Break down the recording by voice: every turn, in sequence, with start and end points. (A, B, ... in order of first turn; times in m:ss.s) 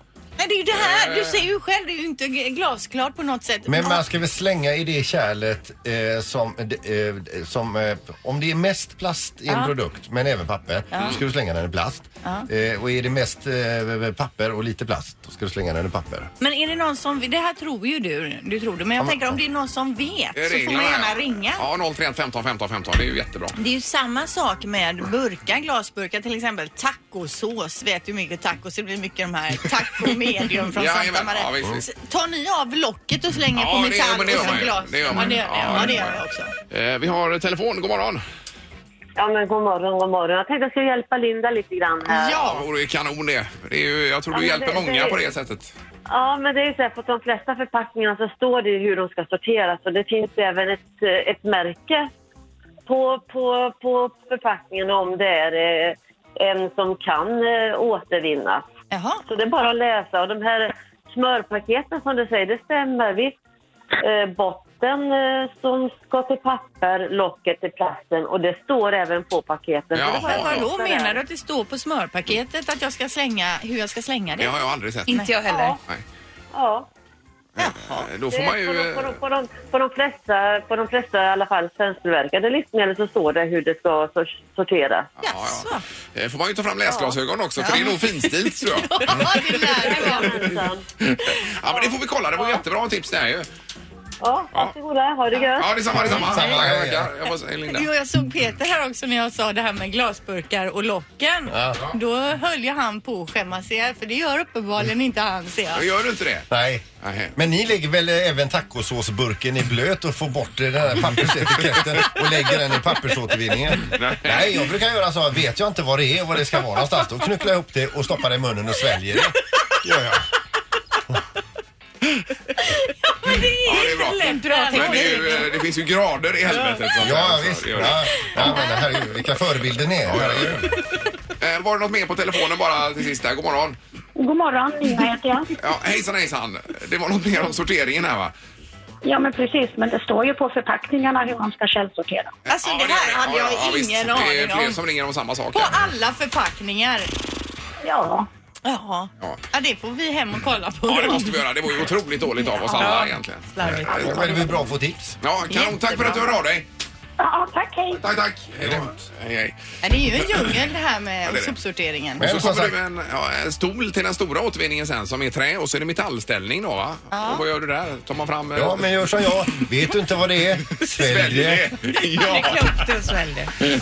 0:00.4-0:04.0 A
0:00.7-0:01.5 B
0:03.7-0:16.3 C
0:09.5-0:09.7 A
0:10.9-0:11.2 A
0:16.4-0:21.6 A
0:19.0-0:19.4 C
0:20.4-0:23.6 B
0:23.6-0:36.5 A
0:30.7-0:31.9 B
0:33.5-0:38.2 B
0:39.2-0:42.5 D
0:42.1-0:42.6 A
0:42.3-0:45.7 B
0:44.3-0:45.2 D
0:46.1-0:52.1 D
0:52.9-0:58.7 D
0:58.9-0:59.2 A
0:59.3-1:03.4 D
1:04.0-1:11.2 D
1:09.9-1:10.7 B
1:10.2-1:15.8 A
1:14.4-1:15.1 B
1:15.1-1:15.8 E
1:15.5-1:15.8 D
1:16.5-1:16.9 D
1:17.6-1:18.1 A
1:17.6-1:19.2 B
1:18.3-1:25.1 D
1:25.2-1:25.8 A
1:25.2-1:33.5 B
1:26.9-1:27.2 D
1:27.6-1:30.6 A
1:29.9-1:30.9 D
1:31.6-1:32.6 D
1:34.2-1:35.9 D
1:35.6-1:37.9 B
1:35.9-1:37.1 C
1:36.2-1:36.5 A
1:37.7-1:45.9 A
1:41.5-1:41.9 C
1:45.7-1:46.5 B
1:46.5-2:00.2 C
1:47.0-1:47.4 B
1:53.9-1:54.6 B
2:03.0-2:05.5 A
2:03.6-2:08.6 B
2:03.7-2:05.4 E
2:07.0-2:10.7 C
2:08.4-2:08.8 A
2:10.1-2:10.7 B
2:11.4-2:13.8 B
2:14.2-2:15.5 F
2:15.6-2:18.3 B
2:19.0-2:22.3 F
2:22.5-2:24.8 A
2:22.5-2:25.9 B
2:25.5-2:27.1 A
2:27.8-2:28.3 F
2:28.6-2:31.5 A
2:30.9-2:34.4 B
2:32.4-2:34.5 A
2:32.8-2:33.0 E
2:33.6-2:35.2 C
2:35.2-2:36.7 B
2:35.5-2:36.4 A
2:37.2-2:38.0 F
2:38.0-2:39.6 B
2:38.6-2:38.9 C
2:39.8-2:42.3 A
2:40.1-2:40.6 B
2:41.2-2:41.6 B
2:42.2-2:42.8 C
2:42.2-2:49.7 B
2:47.1-2:47.4 A
2:48.6-2:51.7 C
2:50.8-2:52.7 B
2:52.2-2:53.5 E